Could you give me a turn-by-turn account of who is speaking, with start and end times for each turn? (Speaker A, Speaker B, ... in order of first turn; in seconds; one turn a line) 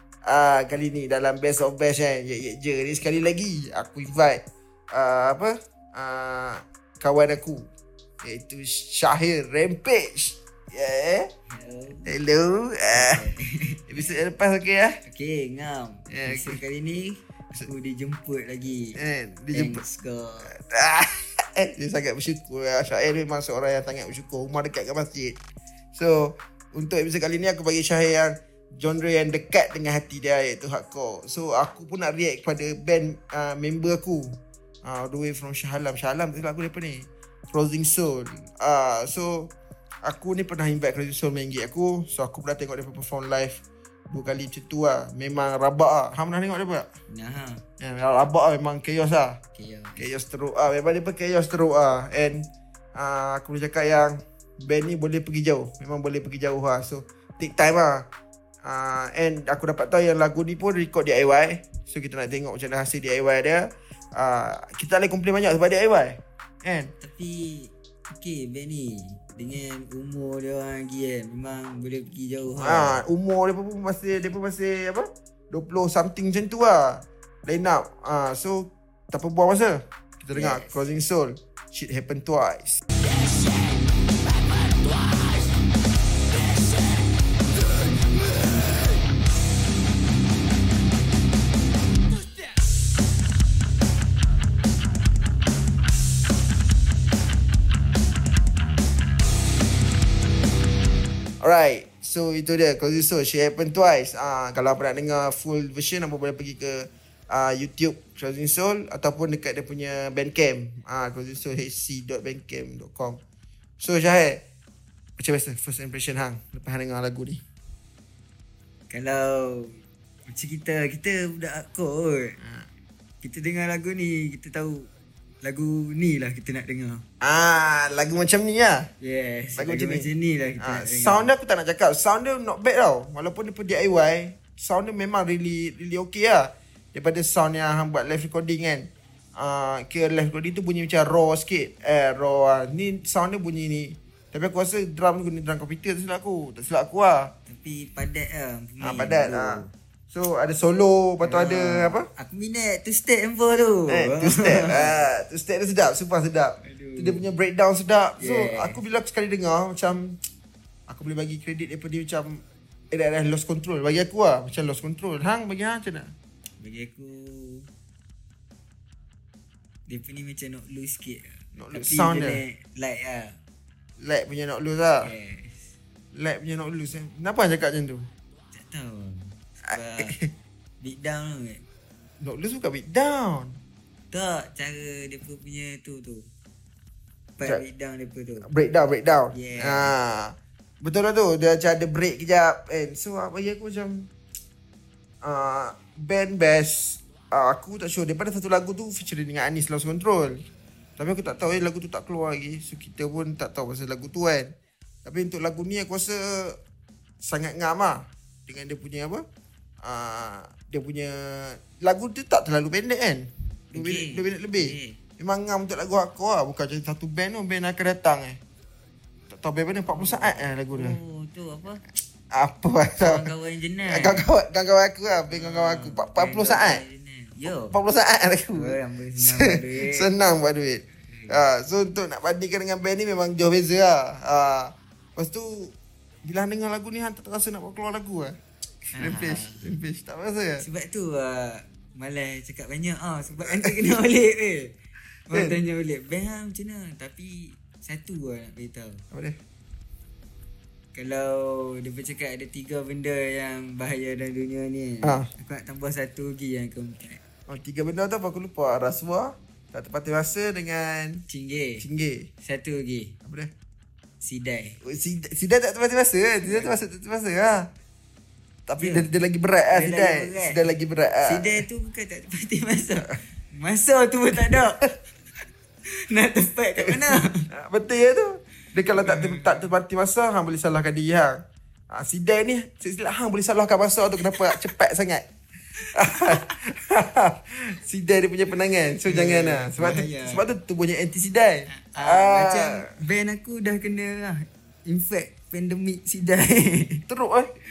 Speaker A: 0.2-4.4
Speaker A: 4.9-7.7
Speaker A: 8.2-11.3
Speaker B: 11.5-12.1
Speaker A: 12.1-13.2
Speaker B: 12.9-13.9
Speaker A: 13.9-15.0
Speaker B: 15.1-19.0
Speaker A: 16.1-16.6
Speaker A: 18.9-19.8
Speaker B: 19.5-20.5
Speaker A: 20.4-25.4
Speaker A: 25.9-39.5
Speaker A: 40.0-46.9
Speaker B: 47.1-47.6
Speaker A: 47.8-49.4
Speaker B: 49.5-50.0
Speaker A: 50.0-58.0
Speaker A: 58.6-66.9
Speaker B: 67.0-73.0
Speaker A: 72.5-82.8
Speaker B: 80.3-80.8
Speaker A: 101.4-113.2
Speaker A: 113.8-114.4
Speaker A: 115.2-117.4
Speaker B: 118.9-122.4
Speaker A: 122.4-122.7
Speaker B: 123.2-124.9
Speaker B: 125.4-127.0
Speaker A: 127.2-128.9
Speaker B: 129.0-131.3
Speaker A: 129.6-130.1
Speaker A: 130.6-147.3
Speaker B: 147.5-149.7
Speaker A: 148.8-152.1
Speaker B: 151.2-155.1
Speaker A: 153.9-160.2
Speaker B: 156.6-157.2
Speaker B: 158.2-158.8
Speaker A: 160.9-166.1
Speaker B: 166.6-167.7
Speaker B: 169.9-173.4
Speaker A: 171.5-172.4
Speaker A: 174.0-175.1
Speaker B: 175.0-175.6
Speaker A: 176.1-178.1
Speaker B: 178.5-180.2
Speaker A: 180.0-180.3
Speaker B: 180.8-181.6
Speaker A: 182.2-183.6
Speaker B: 184.1-186.3
Speaker B: 187.4-188.5
Speaker A: 188.4-194.1
Speaker B: 189.3-189.9
Speaker A: 195.2-200.4
Speaker A: 201.0-204.5
Speaker A: 205.0-206.6
Speaker A: 207.2-209.2
Speaker A: 209.8-218.4
Speaker B: 213.7-215.0
Speaker A: 219.3-221.0
Speaker B: 219.8-221.8
Speaker A: 222.3-223.3
Speaker B: 223.0-224.2
Speaker A: 223.8-226.8
Speaker B: 225.3-227.8
Speaker A: 227.4-238.3
Speaker B: 228.5-230.1
Speaker B: 231.0-231.4
Speaker B: 238.9-239.7
Speaker A: 238.9-240.6
Speaker B: 240.6-244.7
Speaker A: 243.4-243.7
Speaker B: 245.3-249.0
Speaker B: 250.9-257.2
Speaker A: 255.0-255.3
Speaker A: 257.5-261.2
Speaker B: 261.3-261.8
Speaker A: 261.8-262.3
Speaker B: 262.4-263.1
Speaker B: 264.2-264.8
Speaker A: 264.8-267.7
Speaker B: 266.4-266.7
Speaker A: 268.7-271.6
Speaker B: 268.8-269.1
Speaker B: 269.7-270.6
Speaker B: 271.2-274.9
Speaker B: 275.9-277.5
Speaker A: 277.5-281.4
Speaker B: 278.9-279.7
Speaker A: 281.9-285.2
Speaker B: 284.3-284.6
Speaker A: 285.9-292.9
Speaker B: 286.1-286.5
Speaker B: 289.0-290.4
Speaker B: 291.7-297.0
Speaker A: 297.1-297.5